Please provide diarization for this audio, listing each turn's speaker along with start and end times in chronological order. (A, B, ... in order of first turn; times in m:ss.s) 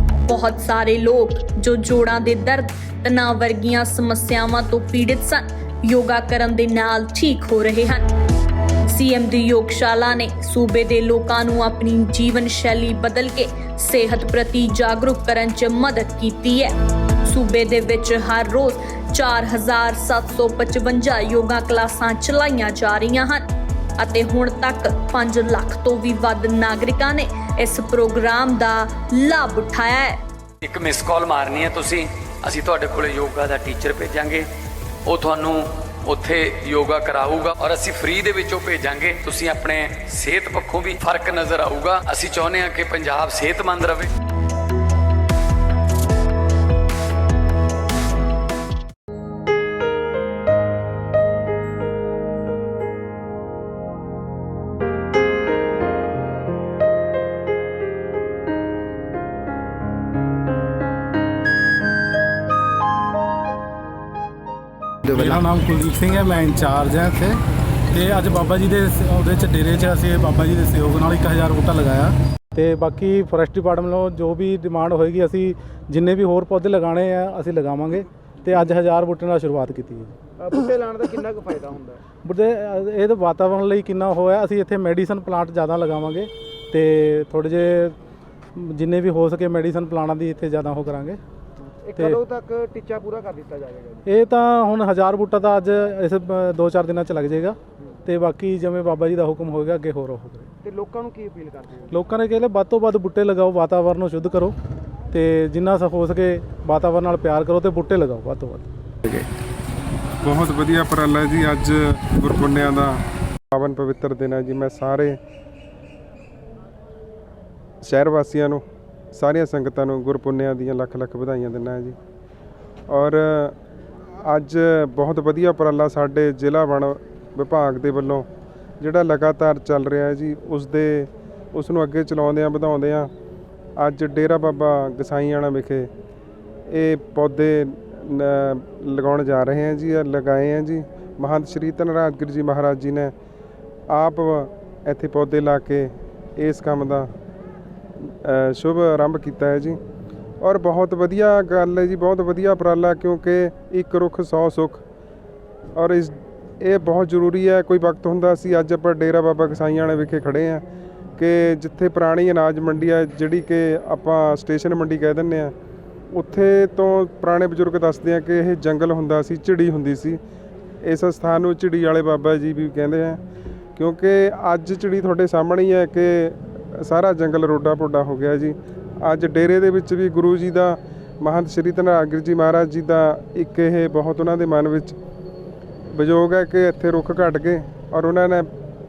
0:00.3-0:08.1 A
0:08.9-0:23.4 A
0:24.0-0:30.2 A
0:30.6-0:34.5 B
0:35.0-0:44.1 B
1:05.1-1:20.1 C
1:20.4-1:22.0 D
1:22.2-1:27.9 C
1:28.5-1:31.2 C
1:31.8-1:34.0 D
1:34.0-1:40.5 C
1:40.6-1:41.9 D
1:41.9-1:44.5 C
1:45.1-1:48.7 C
1:50.2-1:55.2 E
1:57.8-1:58.6 E
1:59.1-2:02.0 E
2:02.9-2:03.6 E
2:04.2-2:08.2 E
2:08.8-2:13.1 E
2:13.8-2:15.9 E
2:16.7-2:23.1 E
2:23.9-2:27.1 E
2:28.0-2:29.8 E
2:30.4-2:34.8 E
2:35.8-2:40.6 E
2:41.2-2:45.5 E
2:46.1-2:50.2 E
2:50.8-2:53.2 E
2:53.8-3:05.0 E
3:05.9-3:08.5 E